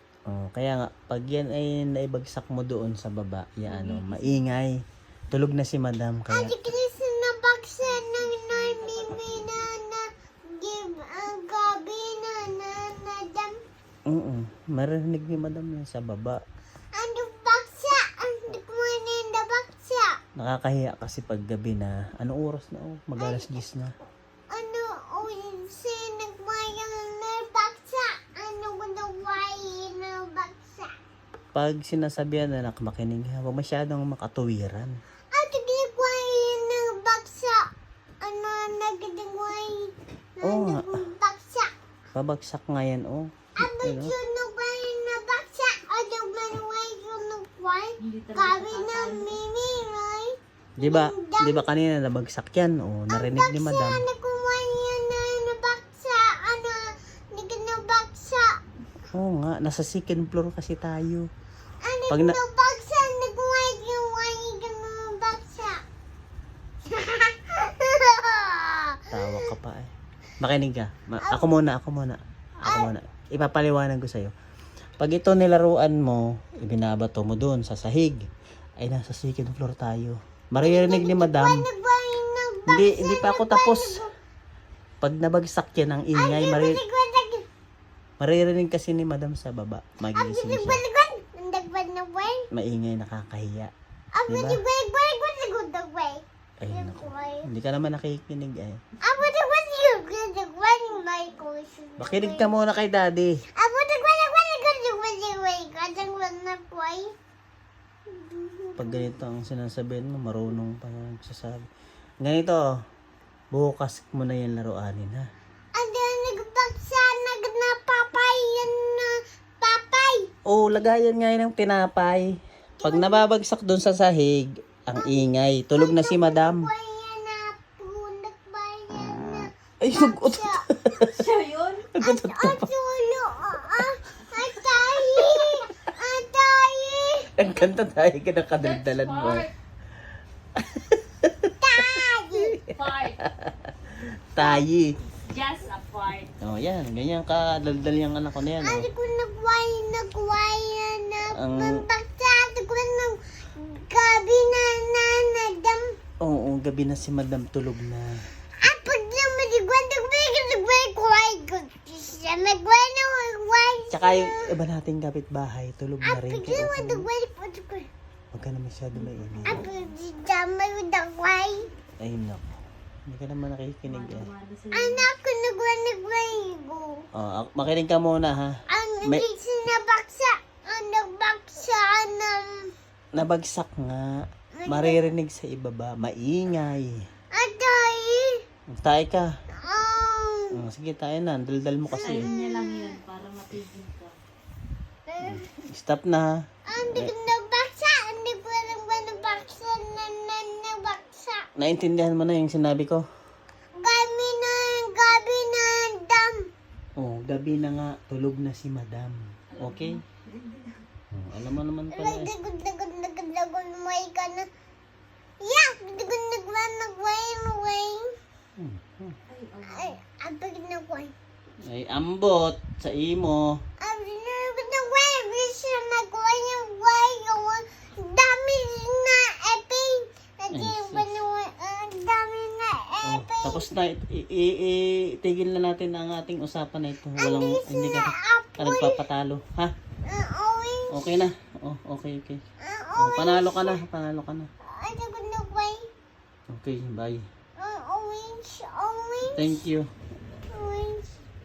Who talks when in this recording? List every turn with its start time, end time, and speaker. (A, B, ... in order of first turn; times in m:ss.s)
0:00.3-0:04.7 A
0:03.6-0:04.4 B
0:05.3-0:06.7 A
0:06.3-0:10.0 C
0:07.9-0:09.6 B
0:10.5-0:13.5 C
0:14.1-0:16.4 A
0:17.0-0:20.1 C
0:20.4-0:23.9 A
0:23.2-0:23.6 C
0:24.5-0:30.9 C
0:31.5-0:34.9 A
0:35.3-0:37.6 C
0:38.2-0:41.7 C
0:40.4-0:41.0 A
0:42.1-0:44.1 A
0:43.6-0:51.6 C
0:48.0-0:49.4 B
0:50.8-0:54.1 A
0:53.1-0:56.8 C
0:57.3-0:58.5 C
0:59.1-1:01.3 A
1:01.8-1:05.8 C
1:02.1-1:02.4 A
1:06.9-1:09.5 C
1:09.1-1:14.3 A
1:11.2-1:11.5 C
1:12.6-1:12.9 C
1:15.0-1:18.3 A
1:18.8-1:21.6 A
1:20.6-1:24.1 C
1:22.7-1:24.0 A
1:25.0-1:26.8 A
1:26.1-1:27.4 C
1:28.2-1:30.8 A
1:30.1-1:32.4 C
1:32.5-1:33.7 A
1:34.1-1:37.4 C
1:34.3-1:34.6 A
1:36.6-1:38.8 A
1:39.0-1:42.5 C
1:42.0-1:43.4 A
1:43.6-1:47.0 C
1:48.1-1:49.1 C
1:48.8-1:51.7 A
1:52.2-1:52.6 A
1:53.5-1:55.2 A
1:55.7-2:00.3 C
2:00.4-2:02.3 A
2:02.8-2:03.3 C
2:02.8-2:06.7 A
2:04.9-2:10.6 C
2:09.8-2:11.2 A
2:11.1-2:11.9 B
2:11.9-2:12.7 A
2:12.0-2:17.3 C
2:14.7-2:15.6 A
2:17.4-2:19.5 A
2:18.6-2:19.5 B
2:20.6-2:22.6 A
2:21.6-2:22.6 C
2:22.7-2:23.2 B
2:23.2-2:24.9 A
2:24.4-2:24.6 C
2:25.3-2:26.3 B
2:26.4-2:28.9 A
2:28.6-2:35.8 C
2:31.3-2:31.8 A
2:36.2-2:38.1 A
2:38.6-2:44.5 C
2:43.9-2:47.1 A
2:46.0-2:47.9 C
2:48.3-2:49.6 A
2:49.0-2:49.6 B
2:49.4-2:51.6 C
2:52.0-2:52.5 A
2:53.1-2:54.3 A
2:53.8-2:55.1 B
2:54.7-2:57.0 C
2:57.1-2:59.3 A
2:58.7-3:02.5 C
3:03.1-3:06.9 A
3:04.6-3:05.0 C
3:07.3-3:08.3 C
3:08.7-3:09.3 A
3:09.6-3:10.5 C
3:10.5-3:12.3 A
3:11.9-3:14.1 B
3:12.0-3:13.0 C
3:15.1-3:15.4 C
3:15.2-3:16.3 A
3:16.7-3:21.5 C
3:16.8-3:17.1 A
3:21.6-3:23.0 A
3:23.8-3:26.4 C
3:27.0-3:30.0 A
3:29.5-3:30.8 B
3:31.1-3:32.3 A
3:31.9-3:34.5 C
3:35.4-3:38.1 C
3:38.6-3:39.2 A
3:39.3-3:40.0 B
3:39.6-3:41.1 C
3:41.6-3:43.6 A
3:43.8-3:53.7 C
3:50.5-3:51.1 A
3:53.0-3:59.7 A
3:57.2-3:59.0 C
4:00.1-4:01.2 C
4:00.9-4:02.4 A
4:02.6-4:03.8 C
4:03.0-4:04.5 A
4:04.6-4:05.8 C
4:06.5-4:07.2 A
4:07.6-4:09.6 C
4:09.3-4:09.9 A
4:10.5-4:11.1 C